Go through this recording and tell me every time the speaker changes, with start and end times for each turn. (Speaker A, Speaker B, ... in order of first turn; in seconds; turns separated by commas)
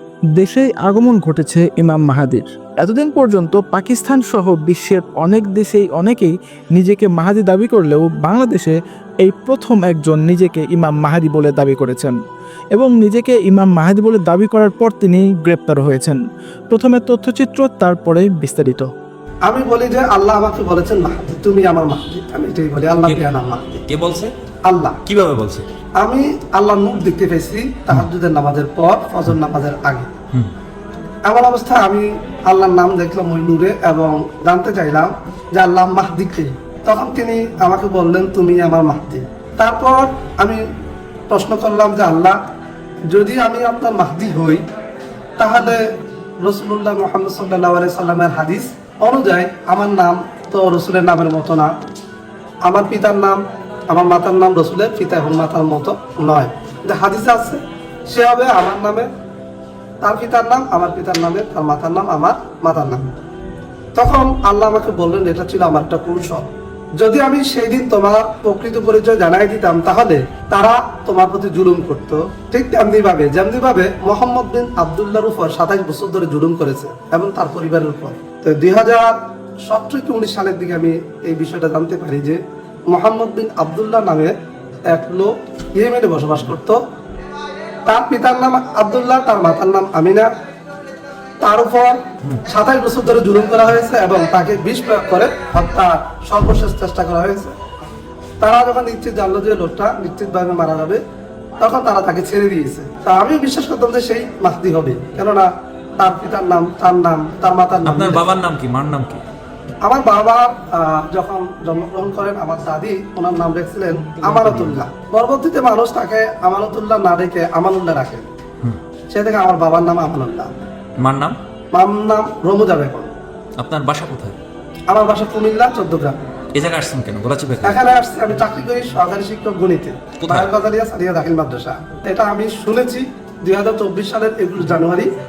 Speaker A: 0.4-12.2, Speaker A: 12.7-16.2, Speaker A: 16.7-18.9, Speaker B: 19.4-23.8, Speaker C: 23.9-24.3, Speaker B: 24.6-25.0, Speaker C: 25.0-25.6, Speaker B: 26.0-30.1, Speaker B: 31.2-40.6, Speaker B: 41.3-42.4, Speaker B: 43.1-44.6, Speaker B: 45.4-45.9, Speaker B: 46.4-51.7, Speaker B: 52.6-59.1, Speaker B: 60.0-63.1, Speaker B: 64.0-66.5, Speaker B: 67.0-79.1, Speaker B: 79.7-84.3, Speaker B: 84.9-86.8, Speaker B: 87.8-90.3, Speaker B: 91.4-97.5, Speaker B: 98.4-101.0, Speaker B: 101.6-105.5, Speaker B: 106.0-108.2, Speaker C: 107.8-109.2, Speaker B: 109.8-118.3, Speaker C: 114.2-114.8, Speaker B: 119.1-120.6, Speaker C: 121.0-121.4, Speaker B: 121.7-123.1, Speaker C: 123.6-124.4, Speaker B: 124.9-126.2, Speaker C: 126.5-127.8, Speaker B: 127.6-135.1, Speaker C: 130.2-130.5